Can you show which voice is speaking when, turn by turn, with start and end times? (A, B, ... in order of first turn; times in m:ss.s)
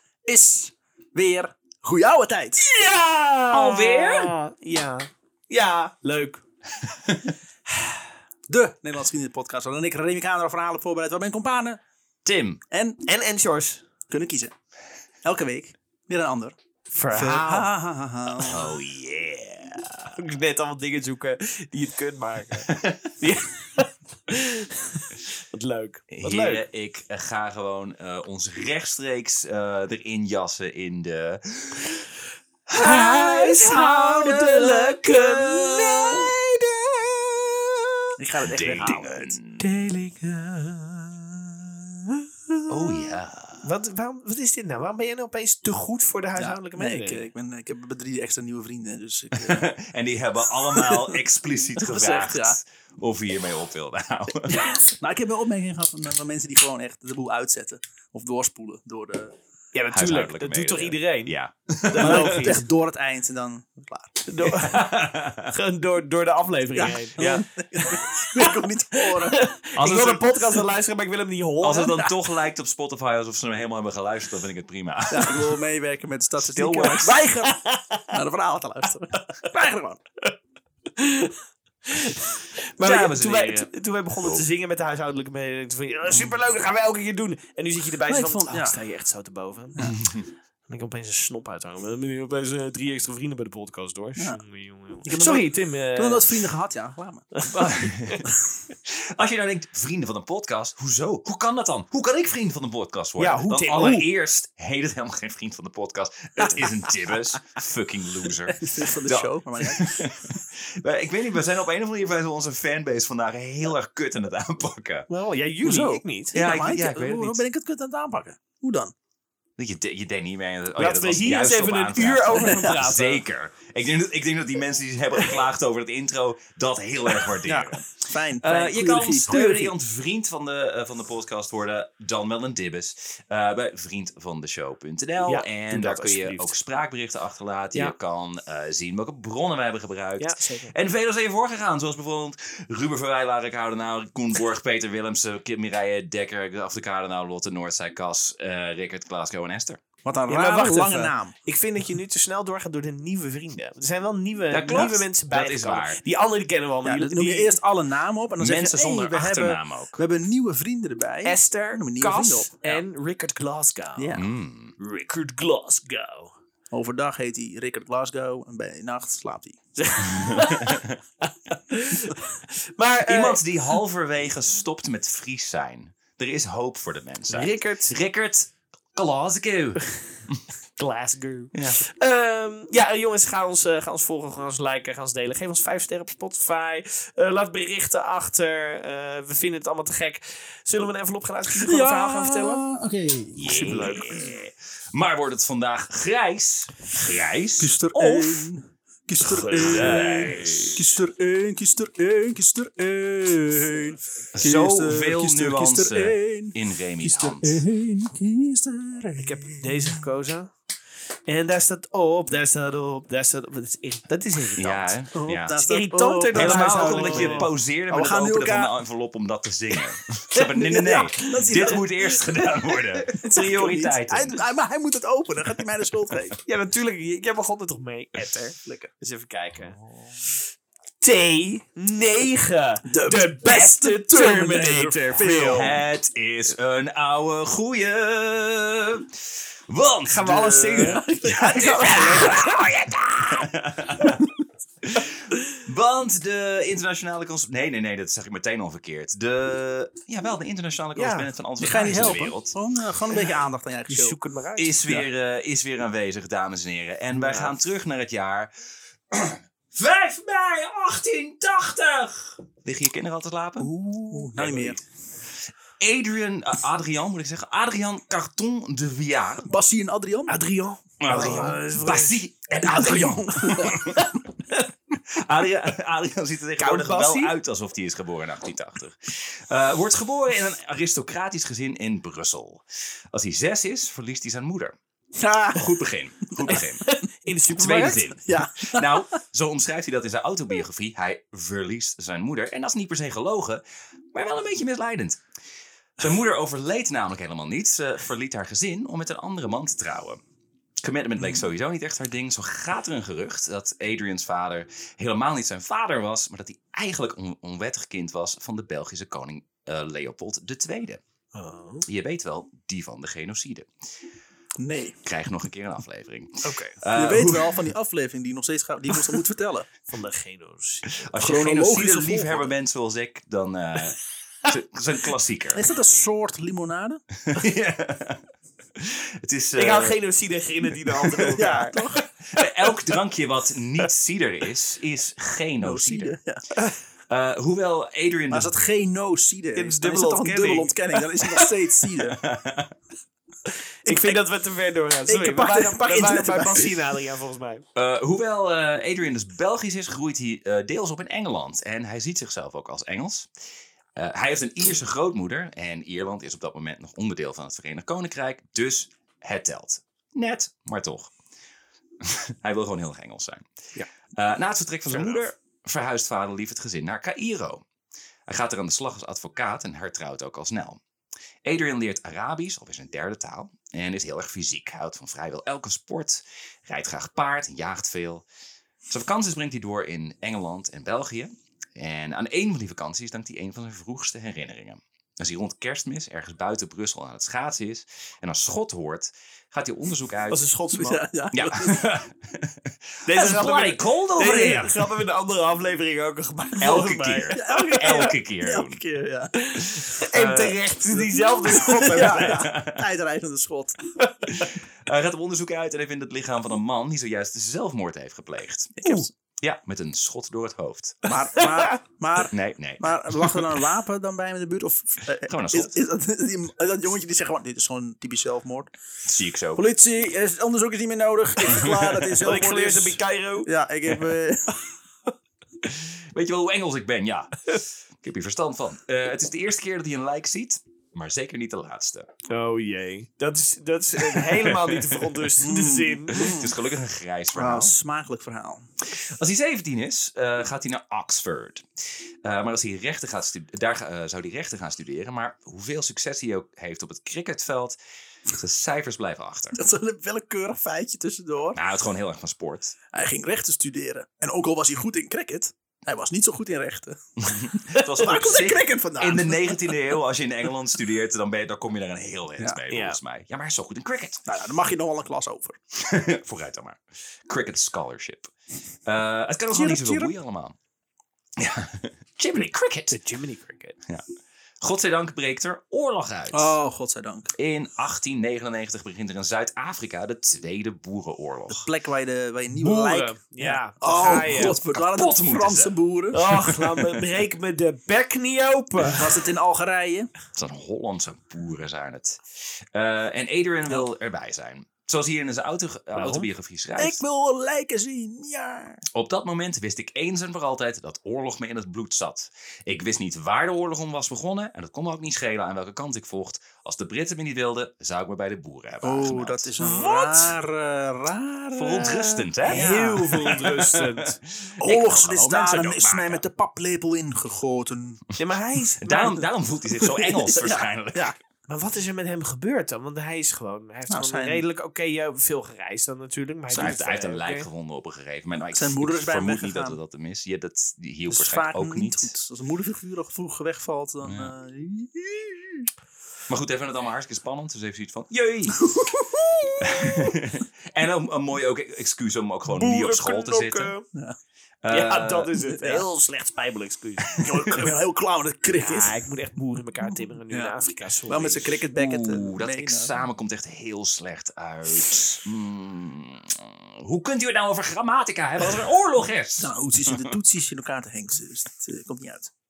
0:00.3-0:02.7 A
0:02.6-0:06.4 B
0:03.5-0:04.4 C
0:07.7-0:08.0 B
0:08.5-0:11.8 A
0:12.2-0:12.6 C
0:12.7-0:13.0 A
0:13.0-0:13.8 B
0:14.1-0:14.5 A
0:15.2-0:16.6 A
0:16.9-0:17.7 B
0:17.1-0:18.7 A
0:18.4-0:20.2 C
0:20.2-0:26.6 B
0:22.6-0:23.1 C
0:26.1-0:32.1 C
0:32.7-0:36.4 C
0:32.7-0:38.0 B
0:38.2-0:39.0 A
0:38.4-0:39.6 C
0:38.8-0:47.3 B
0:42.7-0:43.7 C
0:46.4-0:49.7 A
0:49.3-0:54.7 C
0:50.7-0:51.1 A
0:51.8-0:52.6 A
0:54.5-0:59.3 A
0:59.7-1:02.6 B
0:59.9-1:02.5 C
1:01.9-1:04.2 A
1:04.2-1:08.5 B
1:04.4-1:05.5 C
1:06.7-1:09.5 A
1:09.1-1:12.2 B
1:09.8-1:10.4 C
1:11.6-1:15.6 C
1:15.1-1:17.6 A
1:16.4-1:17.2 C
1:16.8-1:18.1 B
1:18.1-1:20.0 A
1:20.9-1:29.9 B
1:22.8-1:24.4 C
1:28.1-1:28.8 A
1:29.9-1:30.3 C
1:30.7-1:36.5 B
1:35.0-1:37.3 A
1:37.3-1:38.3 B
1:37.6-1:55.1 C
1:43.2-1:44.1 B
1:48.7-1:50.4 A
1:55.1-1:56.4 B
1:55.6-1:58.9 A
1:56.3-1:57.4 C
1:59.6-2:29.8 C
2:00.8-2:03.2 B
2:02.4-2:02.8 A
2:07.4-2:09.7 A
2:15.2-2:16.5 B
2:20.2-2:20.7 B
2:30.0-2:31.3 A
2:30.3-2:37.6 B
2:34.5-2:36.0 C
2:36.8-2:42.7 A
2:38.4-2:40.0 C
2:41.2-2:44.2 B
2:44.0-2:44.2 A
2:44.1-2:44.8 C
2:44.8-2:46.3 B
2:46.7-2:49.6 A
2:49.8-2:53.4 B
2:50.0-2:51.0 C
2:53.0-3:00.4 C
2:57.3-2:57.9 B
3:00.8-3:12.6 B
3:01.5-3:01.8 C
3:11.6-3:13.6 A
3:13.4-3:18.5 C
3:13.5-3:14.2 B
3:17.6-3:30.0 A
3:19.2-3:20.8 B
3:19.5-3:20.8 C
3:24.3-3:27.6 C
3:29.2-3:30.5 B
3:31.3-3:37.5 B
3:34.6-3:35.6 C
3:35.2-3:38.7 A
3:36.3-3:44.4 C
3:40.5-3:41.9 A
3:43.1-3:46.4 A
3:46.4-3:49.8 B
3:48.6-3:48.9 A
3:51.0-3:55.7 B
3:52.8-3:55.7 A
3:55.4-4:04.2 C
4:00.1-4:02.5 B
4:00.8-4:02.6 A
4:04.8-4:12.5 C
4:11.0-4:11.3 B
4:11.6-4:14.2 A
4:13.9-4:15.0 B
4:14.6-4:18.5 C
4:17.1-4:17.6 B
4:19.1-4:23.7 C
4:23.6-4:24.8 A
4:24.1-4:24.8 B
4:25.8-4:29.5 C
4:29.4-4:30.4 A
4:30.3-4:32.2 B
4:31.0-4:34.1 C
4:31.1-4:31.8 A
4:32.7-4:33.8 A
4:32.8-4:34.1 B
4:35.0-4:44.7 C
4:36.6-4:37.3 A
4:45.2-4:45.6 A
4:45.5-4:46.8 C
4:46.5-4:48.2 B
4:47.5-4:53.6 C
4:48.2-4:48.9 A
4:54.1-4:55.2 C
4:56.0-5:00.2 C
5:00.8-5:11.0 C
5:11.3-5:11.8 B
5:11.8-5:13.7 C
5:14.6-5:15.0 A
5:15.0-5:17.7 C
5:16.4-5:16.8 B
5:16.9-5:19.7 A
5:19.9-5:20.9 B
5:20.8-5:25.6 C
5:21.2-5:22.5 A
5:25.5-5:27.0 A
5:27.2-5:28.2 C
5:28.8-5:30.0 C
5:29.6-5:32.6 B
5:30.8-5:31.4 C
5:31.4-5:32.0 A
5:32.3-5:36.1 C
5:35.6-5:36.4 A
5:37.1-5:38.5 C
5:38.3-5:42.2 A
5:39.5-5:41.5 B
5:42.1-5:42.7 C
5:43.8-5:47.6 B
5:43.8-5:44.2 A
5:45.1-5:46.8 A
5:47.7-5:53.3 C
5:53.9-6:01.1 C
6:02.0-6:03.5 C
6:04.1-6:07.6 C
6:04.9-6:05.2 B
6:08.3-6:10.8 C
6:11.4-6:18.2 C
6:18.9-6:30.4 C
6:30.3-6:31.1 B
6:30.7-6:31.9 A
6:31.3-6:34.9 C
6:33.0-6:38.1 B
6:36.6-6:38.8 C
6:37.3-6:39.3 A
6:39.4-6:42.5 B
6:40.1-6:40.5 C
6:40.2-6:43.9 A
6:42.0-6:42.8 C
6:44.0-6:44.5 B
6:44.3-6:51.0 C
6:48.8-6:49.1 A
6:51.0-6:58.7 A
6:51.4-6:51.7 B
6:52.3-6:53.4 C
6:55.3-6:55.7 C
6:59.0-6:59.6 C
6:59.5-7:04.6 A
7:01.4-7:02.0 C
7:02.2-7:03.5 B
7:05.7-7:12.1 C
7:12.3-7:16.4 B
7:14.0-7:15.3 C
7:15.4-7:16.5 A
7:16.1-7:17.7 C
7:17.3-7:18.7 A
7:18.9-7:27.8 C
7:28.3-7:29.6 C
7:29.5-7:31.6 A
7:31.5-7:32.7 C
7:32.9-7:39.8 A
7:37.2-7:44.2 C
7:42.7-7:43.0 B
7:44.2-7:45.6 A
7:45.8-7:48.3 C
7:48.8-7:50.6 C
7:49.5-7:50.1 A
7:51.4-7:53.0 C
7:52.9-7:53.8 B
7:54.6-7:56.6 C
7:56.3-7:57.3 A
7:57.4-8:01.7 C
8:01.5-8:06.2 A
8:02.5-8:04.6 B
8:03.9-8:07.1 C
8:06.1-8:09.2 B
8:08.8-8:10.1 A
8:10.4-8:17.0 C
8:15.9-8:16.3 B
8:16.8-8:18.8 A
8:18.9-8:30.4 C
8:28.8-8:33.3 A
8:31.6-8:36.2 C
8:32.4-8:34.2 B
8:34.6-8:38.0 A
8:38.2-8:39.2 B
8:38.8-8:41.1 C
8:39.8-8:41.2 A
8:41.5-8:47.5 B
8:43.9-8:44.4 A
8:46.5-8:52.1 C
8:48.5-8:49.8 A
8:51.1-8:55.7 A
8:54.0-8:54.3 C
8:56.3-8:58.7 C
8:58.5-9:00.0 A
8:59.6-9:03.7 C
9:02.5-9:03.8 B
9:04.6-9:05.4 C
9:04.7-9:07.2 B
9:05.5-9:05.8 A
9:07.1-9:07.7 C
9:07.2-9:09.0 A
9:08.5-9:11.5 B
9:10.3-9:10.5 A
9:11.1-9:13.0 A
9:11.7-9:20.1 C
9:19.4-9:22.3 A